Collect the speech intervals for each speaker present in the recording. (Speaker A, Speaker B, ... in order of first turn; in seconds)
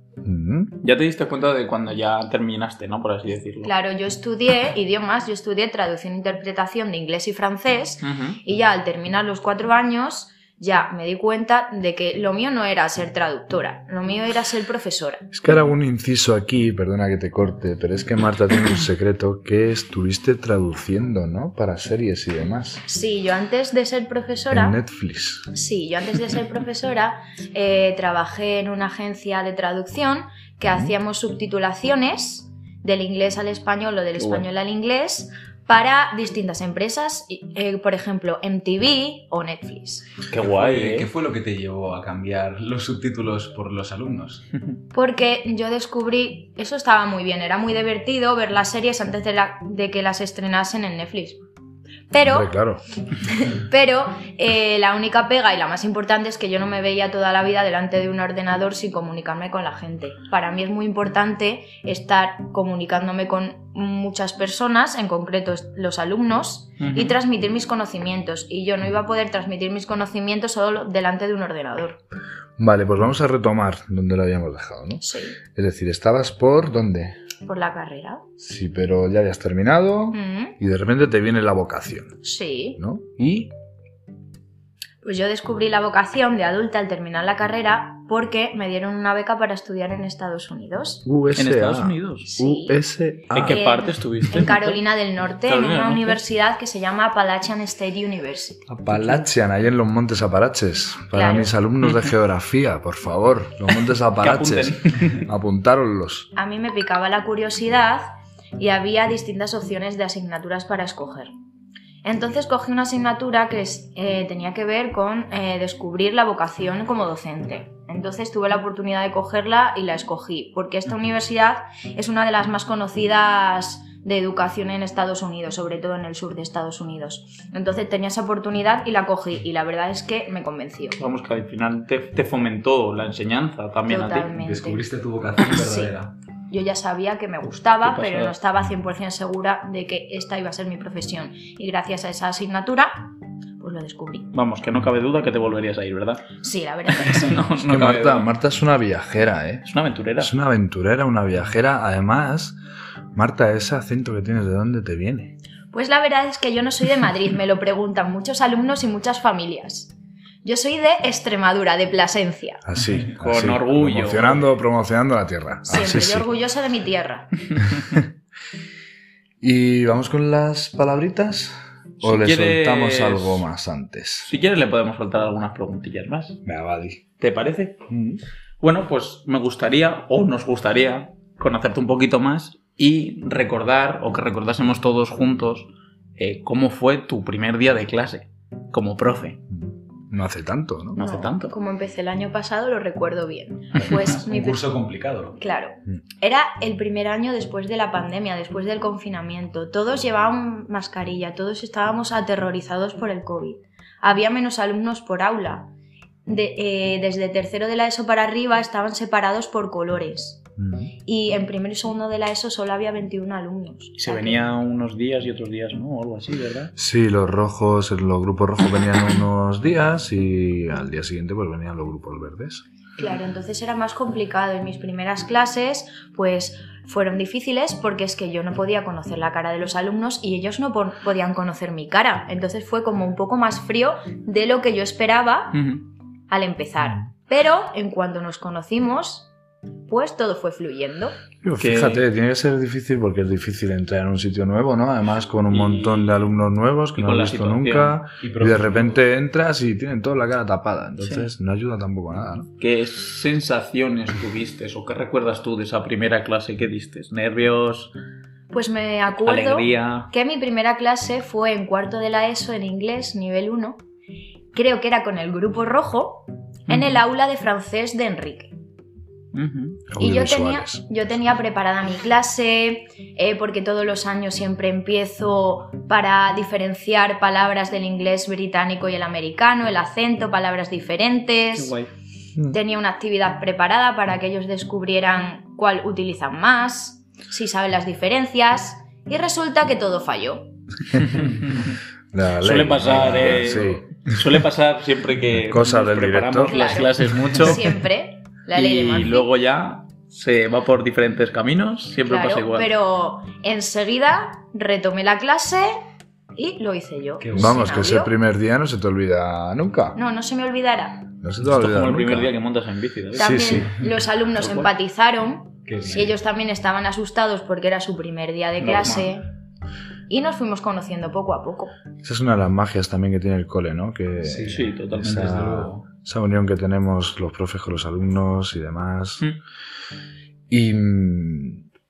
Speaker A: 0.2-0.7, 15.3-22.8, 24.5-25.5, 52.2-52.8, 72.6-77.2, 78.4-82.2, 82.8-83.5, 91.0-93.6, 98.7-106.3, 147.7-149.7, 150.2-152.6, 153.1-155.4, 162.7-166.3, 169.4-174.3, 176.4-177.0, 177.9-178.2, 189.5-191.0, 210.6-210.9, 216.8-222.6, 241.4-252.5, 269.9-270.9, 292.1-293.9, 295.4-296.7, 307.3-310.0, 311.2-312.3, 313.2-313.7, 322.0-329.3, 330.5-331.6
Speaker B: 0.8-3.7, 8.0-8.4, 34.2-34.5, 40.3-41.1, 66.8-67.2, 91.3-92.3, 93.3-94.8, 95.4-96.2, 104.2-105.2, 131.0-134.3, 137.8-138.4, 144.3-146.2, 147.1-148.3, 149.6-150.3, 163.2-164.5, 172.0-173.4, 174.3-176.4, 177.2-177.8, 178.6-189.4, 190.9-191.5, 214.0-216.7, 235.5-235.8, 241.6-242.1, 245.5-246.3, 247.0-248.0, 252.6-257.9, 259.2-260.1, 266.7-267.0, 269.3-269.9, 281.6-281.9, 292.4-297.8, 298.5-302.7, 311.5-313.4, 314.4-314.7, 318.6-319.1, 324.5-325.1
Speaker C: 3.6-15.3, 22.9-24.8, 25.5-40.1, 44.9-51.4, 52.1-52.6, 53.2-72.0, 75.0-75.4, 77.4-78.2, 80.1-80.5, 82.2-82.8, 85.0-91.0, 92.3-92.8, 93.5-98.7, 101.1-101.5, 106.3-108.1, 108.6-111.3, 112.0-131.0, 133.9-134.9, 135.5-135.9, 136.5-144.3, 146.4-147.5, 155.7-162.6, 165.7-167.4, 191.0-194.8, 195.3-205.7, 206.3-210.4, 211.1-214.5, 223.0-235.7, 236.3-239.3, 239.9-241.2, 258.5-263.8, 264.5-268.5, 270.0-281.8, 282.5-290.5, 296.5-299.3, 302.0-305.7, 306.4-308.1, 309.9-311.1, 313.2-319.2, 320.1-321.7
Speaker D: 40.3-44.4, 134.3-136.1, 193.8-195.4, 248.2-249.0, 292.9-293.6, 307.2-307.7, 315.7-316.1, 324.2-325.9